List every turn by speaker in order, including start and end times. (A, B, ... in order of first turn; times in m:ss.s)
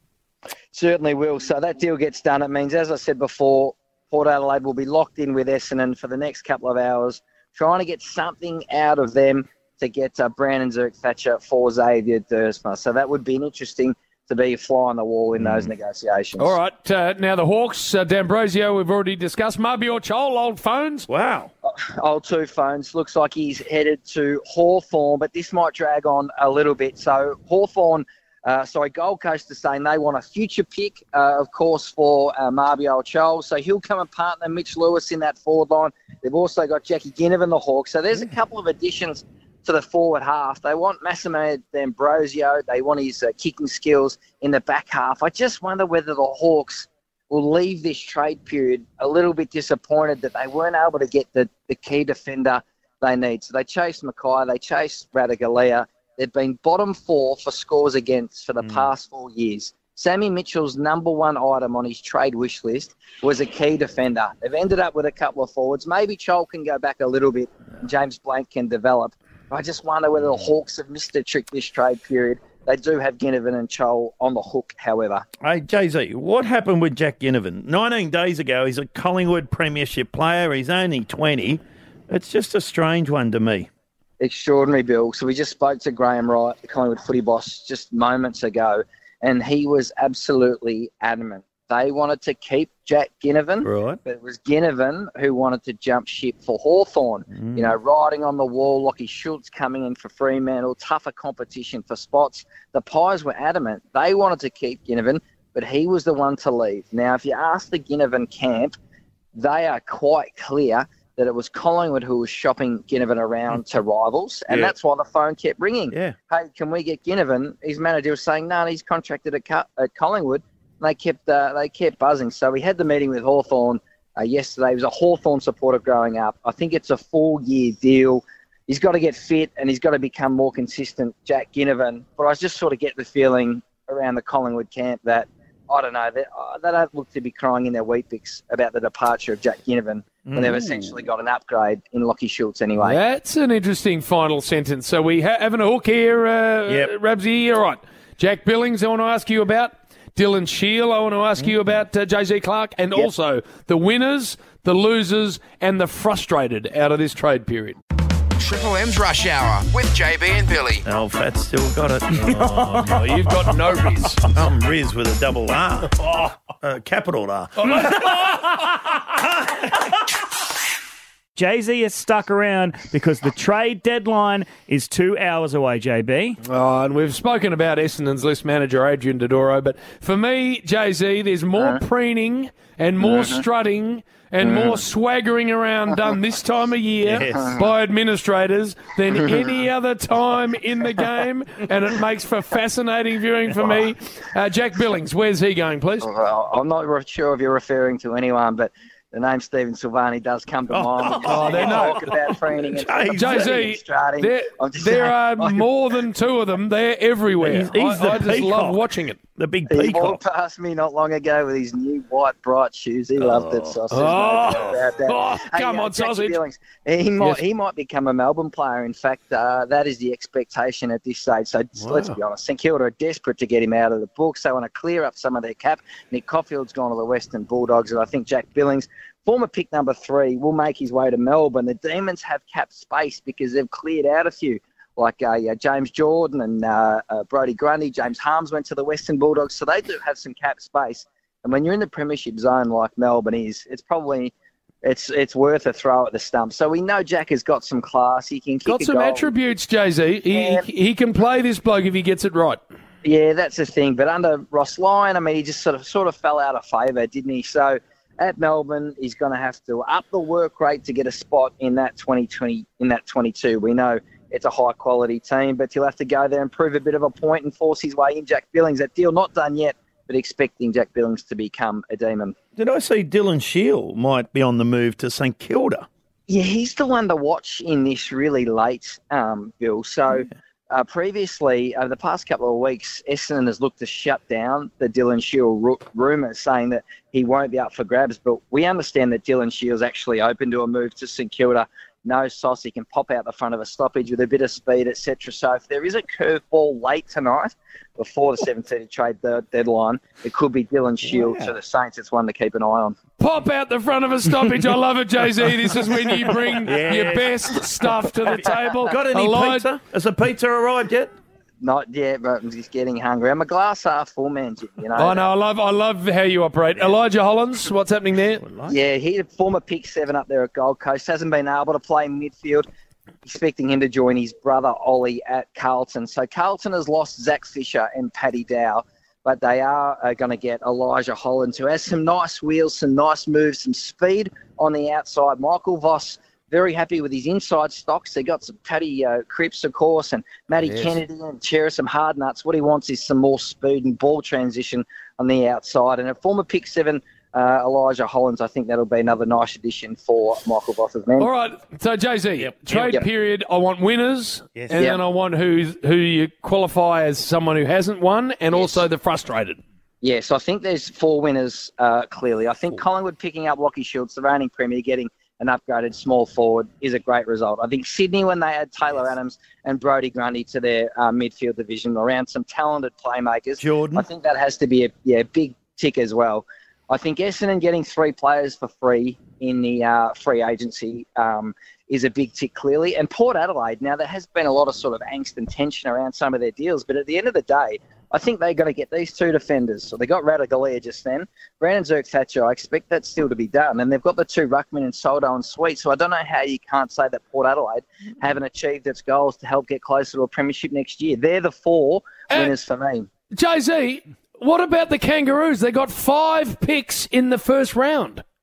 0:00.7-0:16.6 A
0:15.4-0:15.7 B
0:16.4-0:21.1 C
0:21.1-0:21.5 B
0:21.6-1:15.3 A
0:58.6-0:58.9 B
1:15.4-1:23.7 B
1:24.2-1:48.8 A
1:33.6-1:34.0 B
1:37.3-1:37.8 B
1:49.4-2:23.0 A
2:20.3-2:21.0 B
2:22.8-2:37.8 C
2:38.4-2:40.8 D
2:40.9-2:43.4 B
2:42.8-2:44.3 C
2:44.3-2:48.2 B
2:51.4-2:56.4 E
2:56.4-3:16.1 C
3:03.0-3:03.4 A
3:04.4-3:04.8 A
3:07.0-3:07.6 B
3:16.0-3:25.7 A
3:20.7-3:23.7 B
3:21.2-3:22.0 C
3:23.1-3:29.2 C
3:27.4-3:28.8 B
3:29.4-3:30.2 B
3:29.7-4:09.3 A
3:33.2-3:33.8 B
3:33.9-3:36.4 C
3:41.8-3:42.2 B
4:08.7-4:12.6 C
4:10.3-4:10.7 A
4:13.0-4:32.4 A
4:32.6-4:35.9 B
4:36.3-5:03.0 A
5:01.0-5:01.6 B
5:03.2-5:09.7 C
5:06.6-5:11.1 B
5:08.4-5:08.8 A
5:11.6-5:15.3 A
5:15.0-5:18.4 C
5:18.4-5:18.8 B
5:18.7-5:22.7 A
5:23.2-5:51.3 A
5:51.2-5:59.6 C
5:52.7-5:53.0 A
5:54.6-5:54.8 B
5:58.5-5:58.9 A
6:00.0-6:43.1 A
6:13.6-6:14.1 B
6:43.3-6:48.2 C